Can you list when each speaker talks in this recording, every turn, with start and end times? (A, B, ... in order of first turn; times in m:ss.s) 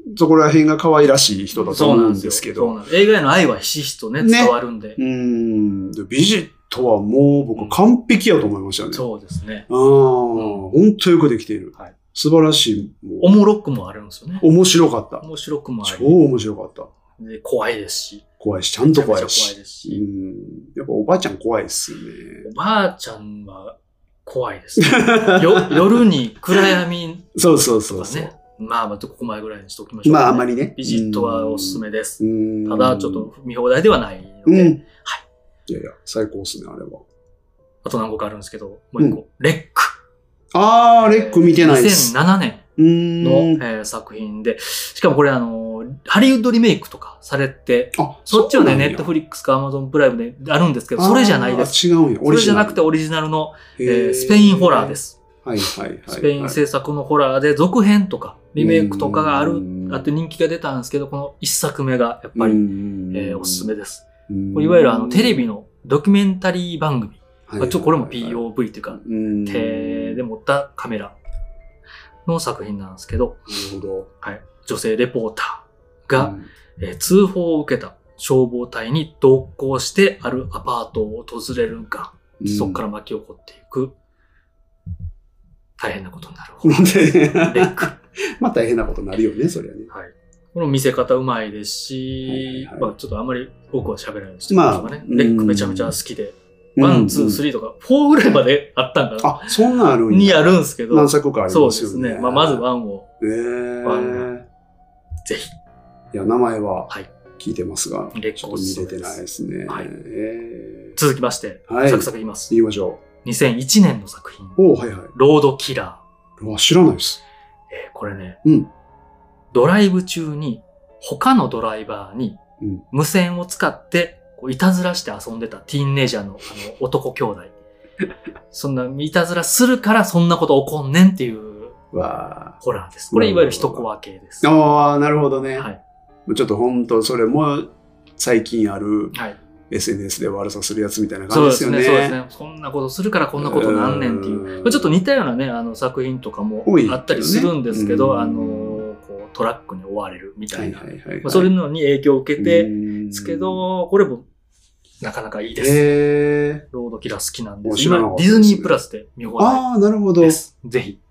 0:00.1-0:02.8 A
0:01.6-0:05.0 B
0:04.2-0:09.0 A
0:08.9-0:09.7 B
0:09.7-0:13.3 A
0:10.4-0:10.7 B
0:13.2-0:14.4 B
0:14.4-0:15.2 A
0:15.2-0:16.2 B
0:15.8-0:16.9 A
0:17.2-0:18.2 B
0:18.4-0:22.5 A
0:18.8-0:20.0 B
0:22.4-0:27.4 B
0:24.8-0:26.8 A
0:27.4-0:28.3 A
0:27.9-0:35.2 B
0:30.0-0:33.3 A
0:34.5-0:34.8 A
0:35.7-0:37.0 A
0:37.8-0:39.9 B
0:40.5-0:42.1 A
0:41.0-0:42.6 B
0:42.8-0:43.6 A
0:43.2-0:55.2 B
0:48.0-0:49.1 A
0:51.0-0:52.8 A
0:53.8-0:56.6 A
0:56.1-1:11.2 B
0:58.6-1:00.1 A
1:02.4-1:03.7 A
1:04.3-1:05.5 A
1:07.5-1:10.2 A
1:12.3-1:13.5 B
1:13.5-1:14.1 A
1:14.2-1:23.9 B
1:16.2-1:16.5 A
1:22.4-1:22.8 A
1:25.8-1:27.9 B
1:26.6-1:29.9 A
1:29.9-1:43.1 B
1:32.3-1:32.9 A
1:34.5-1:36.0 A
1:36.8-1:37.4 A
1:39.2-1:42.6 A
1:43.2-1:44.4 A
1:43.8-1:44.3 B
1:45.3-1:45.5 B
1:46.1-1:51.0 A
1:48.1-1:49.9 B
1:51.0-1:52.5 B
1:51.7-1:53.0 A
1:53.2-1:54.6 B
1:54.6-1:55.1 A
1:55.1-1:56.0 B
1:56.4-1:57.2 A
1:57.7-1:58.4 B
1:58.4-1:58.7 A
1:59.5-2:02.4 B
2:02.9-2:07.5 B
2:08.5-2:11.8 B
2:11.9-2:12.6 A
2:12.6-2:14.5 B
2:13.1-2:13.9 A
2:14.4-2:15.7 A
2:16.3-2:19.1 A
2:19.7-2:22.2 A
2:21.3-2:34.3 B
2:23.4-2:24.9 A
2:26.7-2:28.8 A
2:30.5-2:31.5 A
2:32.4-2:33.6 A
2:35.0-2:35.9 B
2:35.6-2:36.6 A
2:36.7-2:39.6 B
2:37.6-2:38.8 A
2:39.4-2:40.4 A
2:40.2-2:41.0 B